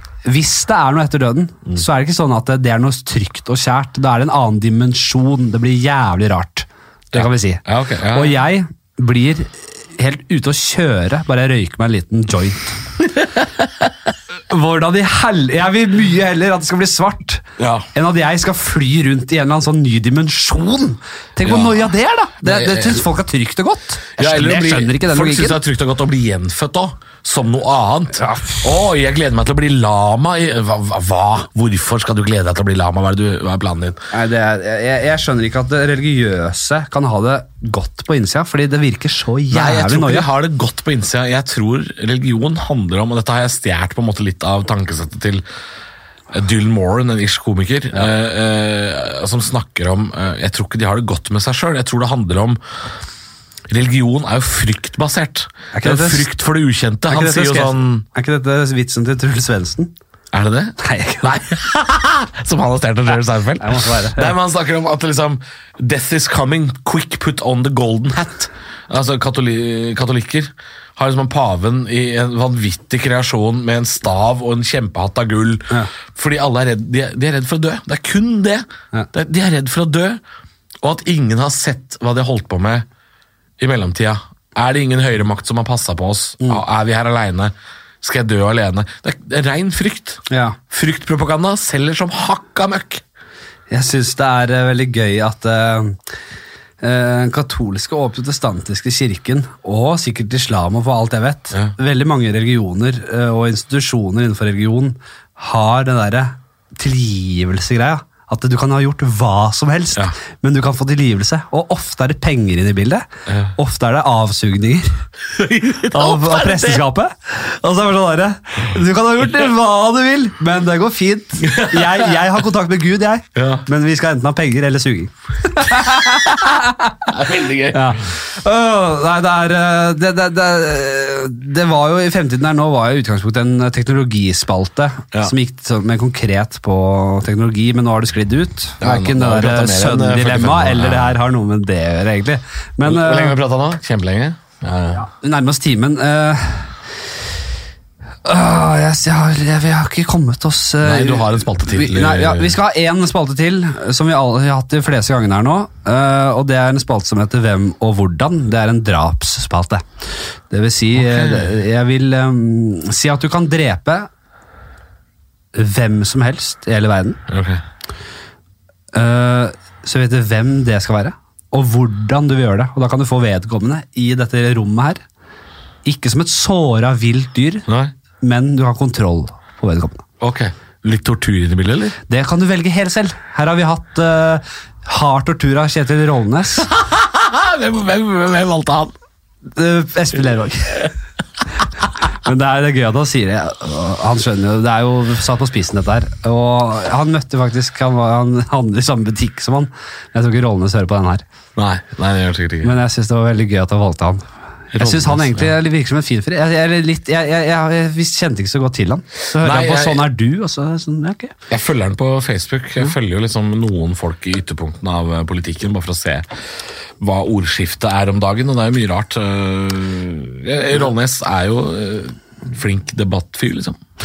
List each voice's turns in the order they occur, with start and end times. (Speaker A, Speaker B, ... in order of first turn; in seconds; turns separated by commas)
Speaker A: 0.2-12.8, Speaker B: 7.1-8.4, Speaker A: 14.5-25.6, Speaker B: 17.6-17.9, Speaker B: 21.4-21.9, Speaker B: 22.4-23.1, Speaker B: 24.2-34.0, Speaker A: 28.2-28.6, Speaker A: 34.1-40.3, Speaker B: 39.5-45.4, Speaker B: 46.3-52.6, Speaker B: 53.7-58.0, Speaker A: 55.7-56.3, Speaker A: 57.1-59.9, Speaker B: 60.3-80.2, Speaker A: 60.8-61.3, Speaker A: 63.6-64.3, Speaker B: 80.8-82.8, Speaker B: 83.6-93.0, Speaker A: 90.3-90.6, Speaker A: 93.7-96.0, Speaker A: 96.8-115.0, Speaker B: 113.3-113.5, Speaker B: 115.3-116.8, Speaker A: 115.8-143.4, Speaker B: 121.4-122.2, Speaker B: 123.3-123.6, Speaker B: 127.1-128.0, Speaker B: 138.8-141.2, Speaker B: 142.8-145.1, Speaker A: 145.0-146.7, Speaker A: 148.2-164.1, Speaker B: 150.8-152.6, Speaker B: 160.9-161.5, Speaker A: 165.5-167.2, Speaker B: 167.3-167.6, Speaker A: 168.9-175.0, Speaker A: 175.8-177.7, Speaker B: 177.7-177.9, Speaker A: 178.2-180.1, Speaker B: 180.2-182.0, Speaker A: 182.1-186.7, Speaker B: 186.7-188.9, Speaker A: 189.5-190.9, Speaker A: 192.1-201.2, Speaker B: 201.6-202.8, Speaker A: 202.6-211.3, Speaker B: 204.7-205.5, Speaker B: 209.4-210.1, Speaker B: 211.5-216.2, Speaker B: 217.0-223.8